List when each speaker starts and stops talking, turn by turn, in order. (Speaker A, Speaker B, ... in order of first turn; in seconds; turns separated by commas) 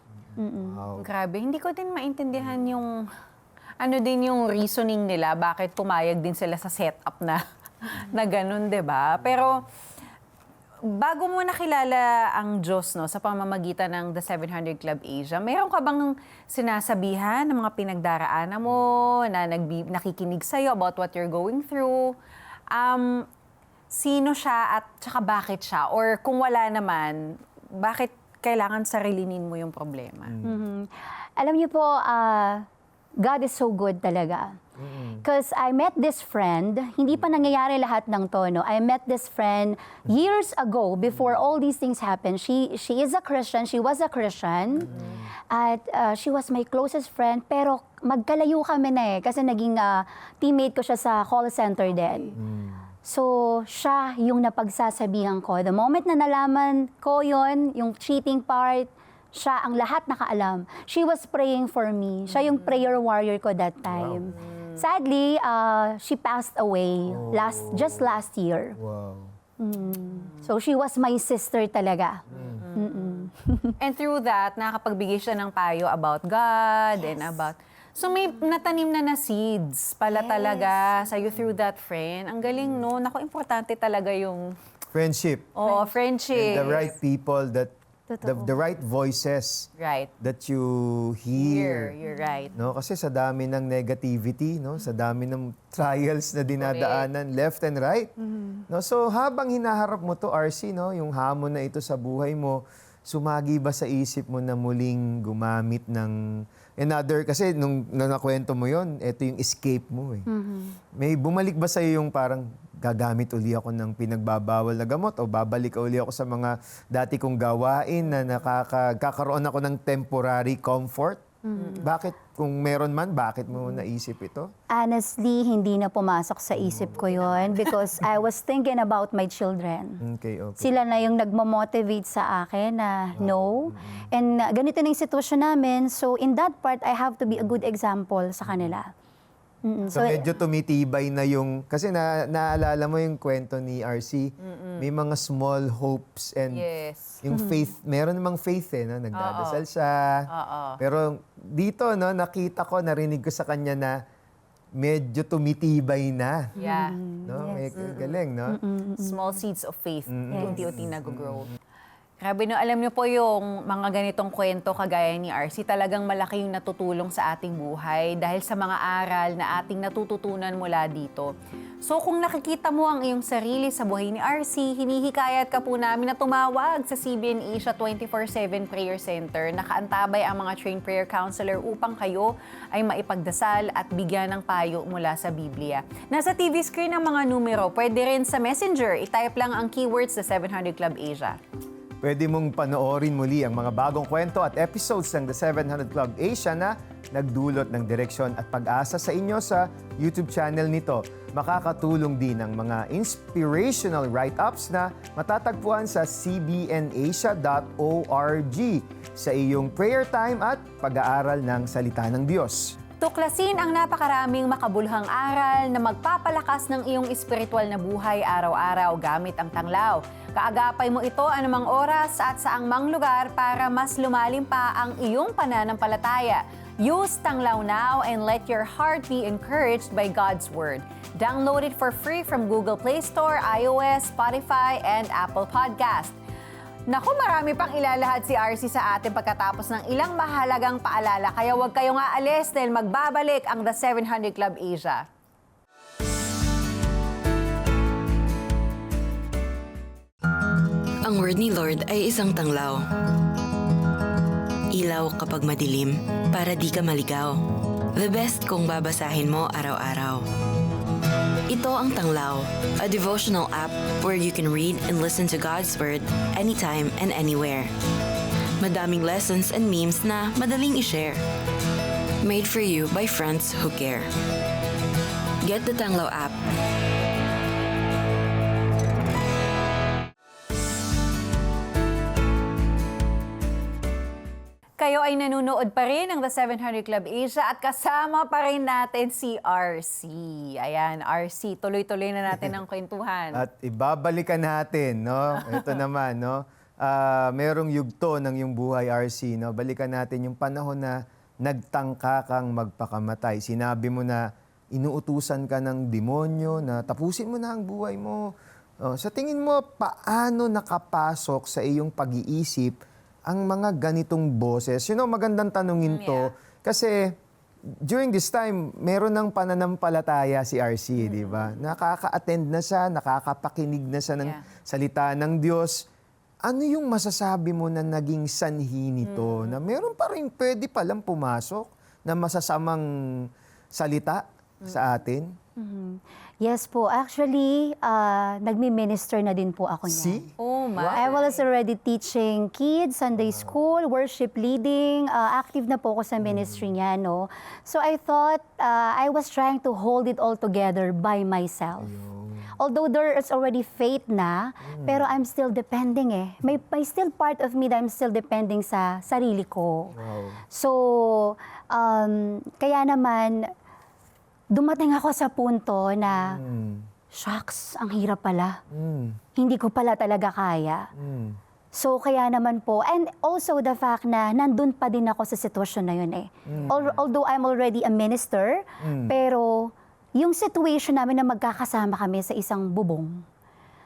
Speaker A: 0.3-1.1, Speaker B: 0.4-0.8, Speaker C: 1.0-3.0, Speaker C: 3.8-9.7, Speaker C: 10.8-22.1, Speaker C: 22.7-23.3, Speaker C: 23.9-30.4, Speaker A: 30.3-30.6, Speaker B: 30.4-32.6, Speaker B: 33.2-34.6, Speaker A: 34.8-35.2, Speaker B: 35.2-44.9, Speaker A: 41.1-41.5, Speaker A: 44.9-45.3, Speaker C: 44.9-45.2, Speaker B: 45.5-52.3, Speaker A: 52.4-52.9, Speaker B: 53.1-68.8, Speaker A: 63.9-64.3, Speaker C: 64.4-64.8, Speaker A: 67.1-68.2, Speaker A: 68.8-69.3, Speaker B: 69.6-72.2, Speaker A: 72.3-72.6, Speaker C: 72.3-73.2, Speaker B: 72.8-73.8, Speaker C: 73.8-84.5, Speaker B: 80.1-81.0, Speaker A: 84.9-85.5, Speaker C: 85.6-87.0, Speaker B: 85.7-85.9, Speaker A: 86.3-89.7, Speaker B: 88.1-88.5, Speaker C: 89.8-90.1, Speaker A: 90.2-92.0, Speaker C: 91.4-92.6, Speaker A: 92.5-98.1, Speaker C: 96.6-97.1, Speaker A: 98.7-106.2, Speaker A: 106.8-110.3, Speaker B: 110.3-110.8, Speaker A: 111.0-121.2, Speaker B: 121.5-121.8, Speaker A: 121.8-124.5, Speaker B: 124.7-130.0, Speaker A: 126.5-127.5, Speaker A: 130.0-130.8, Speaker B: 130.6-138.9, Speaker A: 133.2-134.1, Speaker B: 139.7-140.2, Speaker A: 139.9-146.6, Speaker C: 144.4-144.9, Speaker C: 146.5-147.2, Speaker A: 147.2-150.3, Speaker B: 147.3-147.6, Speaker C: 149.1-149.6, Speaker C: 150.3-150.8, Speaker A: 150.8-154.0, Speaker A: 154.8-156.5, Speaker C: 156.6-157.0, Speaker B: 156.6-157.7, Speaker A: 157.2-158.6, Speaker C: 157.8-158.2, Speaker B: 158.5-159.1, Speaker C: 159.0-161.5, Speaker A: 160.1-161.5, Speaker C: 162.2-171.3, Speaker C: 171.8-191.4, Speaker A: 192.0-212.7, Speaker C: 213.0-236.2, Speaker C: 236.9-245.1, Speaker D: 251.0-252.8, Speaker D: 254.7-257.4, Speaker D: 257.9-260.3, Speaker D: 261.5-267.7, Speaker D: 268.6-271.2, Speaker D: 272.2-274.1, Speaker D: 275.4-276.4, Speaker C: 284.8-293.4, Speaker A: 293.3-317.2, Speaker C: 315.9-316.3, Speaker A: 317.8-325.9, Speaker C: 321.1-321.6, Speaker A: 326.4-332.9, Speaker C: 329.0-329.6, Speaker A: 333.7-335.3, Speaker B: 335.6-340.2, Speaker A: 339.9-341.1, Speaker C: 340.4-341.4, Speaker B: 341.0-351.9, Speaker A: 343.2-343.5, Speaker A: 346.2-346.7, Speaker A: 351.8-352.5, Speaker B: 352.6-359.9, Speaker A: 354.7-355.1, Speaker A: 359.9-360.4, Speaker B: 360.5-363.5, Speaker B: 364.5-366.4, Speaker A: 366.1-366.9, Speaker B: 367.1-368.6, Speaker A: 368.7-369.2, Speaker B: 369.4-370.9, Speaker A: 371.0-371.4, Speaker B: 371.7-383.2, Speaker A: 376.5-377.0, Speaker A: 378.8-379.1